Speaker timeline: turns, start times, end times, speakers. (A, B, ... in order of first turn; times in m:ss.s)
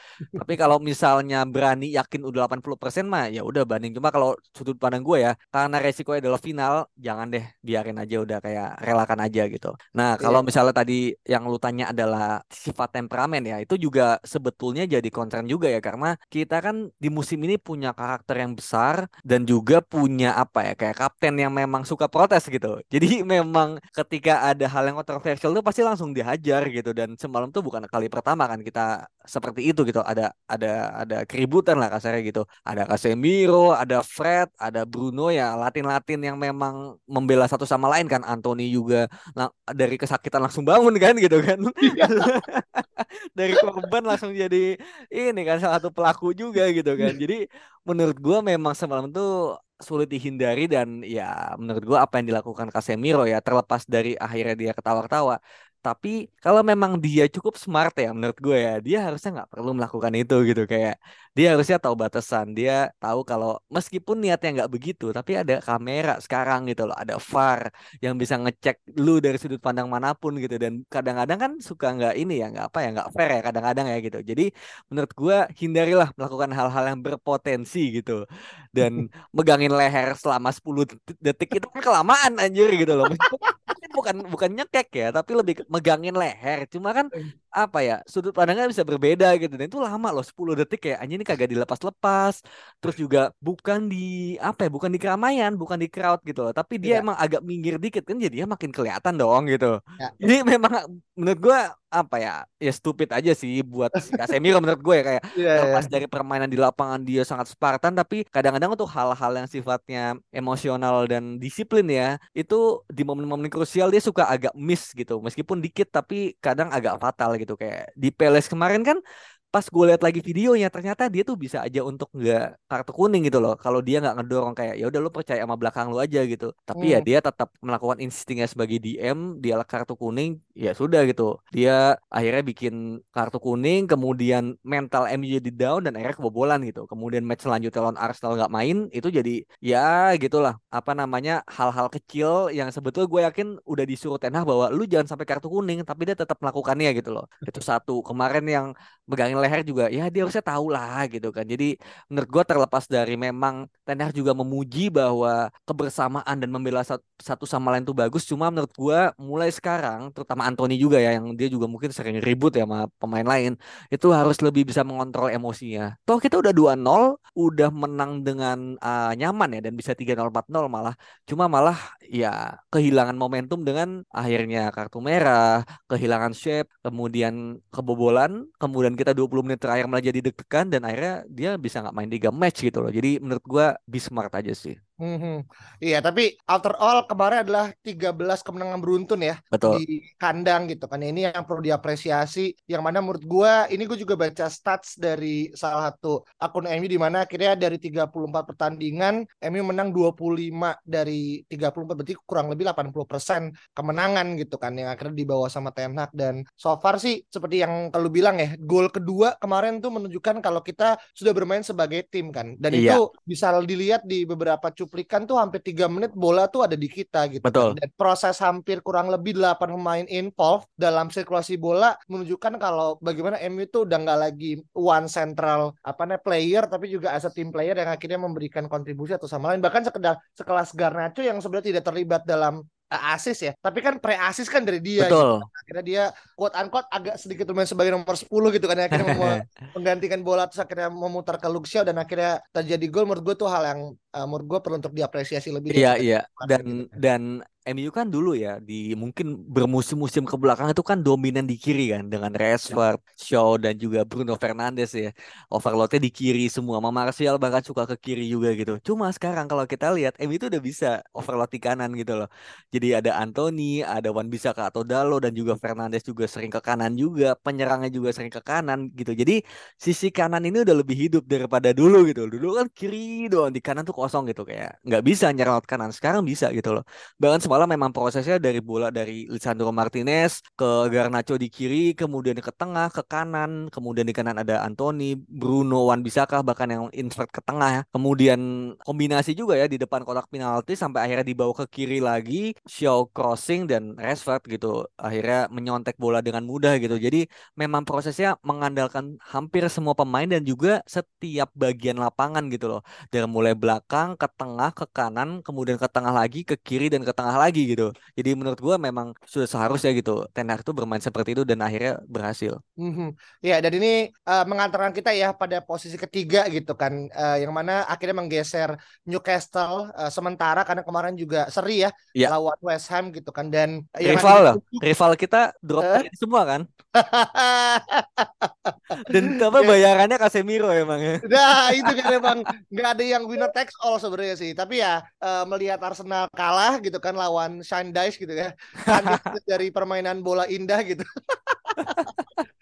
0:00.4-0:49.3 A
0:10.2-0:10.5 B
0:41.9-0:42.2 B
0:49.8-1:18.2 A
1:18.7-1:59.0 A
1:23.1-1:23.4 B
1:45.4-1:45.9 B
1:59.5-3:04.8 A
2:06.8-2:07.0 B
3:05.0-4:07.0 B
3:09.5-3:09.8 A
3:32.7-3:33.0 A
3:37.4-3:37.8 A
3:55.0-3:55.5 A
3:59.0-3:59.4 A
4:05.7-5:12.6 A
5:12.8-5:24.8 B
5:24.0-5:26.7 A
5:25.8-5:26.1 B
5:27.0-5:29.8 B
5:29.0-5:32.3 A
5:31.2-5:42.1 B
5:38.8-5:39.2 A
5:41.9-5:42.2 A